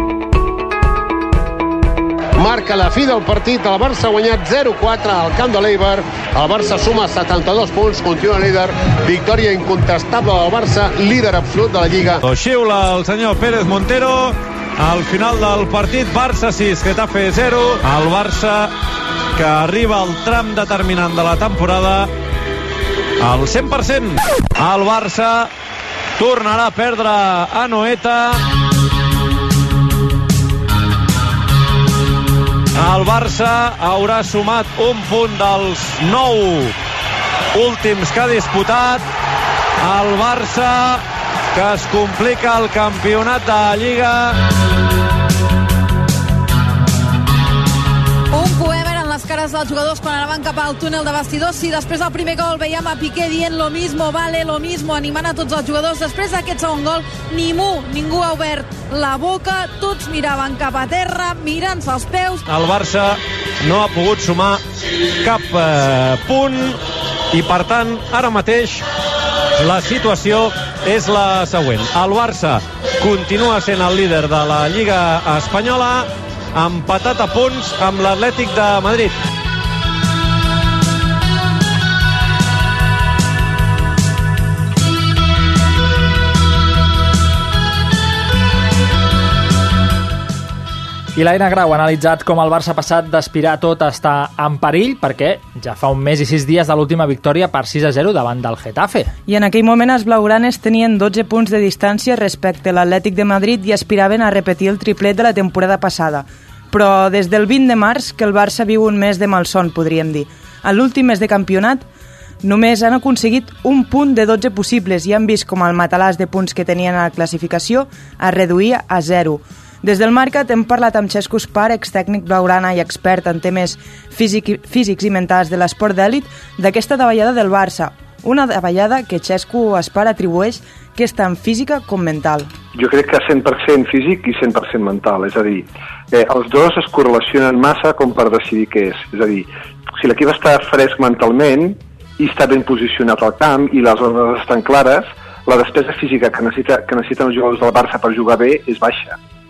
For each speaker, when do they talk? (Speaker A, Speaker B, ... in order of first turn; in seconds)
Speaker A: 2.4-12.2
Speaker B: 12.2-18.7, 19.3-22.1, 23.2-25.5, 26.2-28.4, 32.8-36.7, 37.5-39.0, 39.8-44.4, 62.5-64.6, 65.2-66.8, 67.3-68.8, 69.6-79.1
Speaker C: 48.3-62.4
Speaker D: 91.2-99.1
Speaker E: 99.3-111.8, 112.4-132.5
Speaker F: 132.7-149.2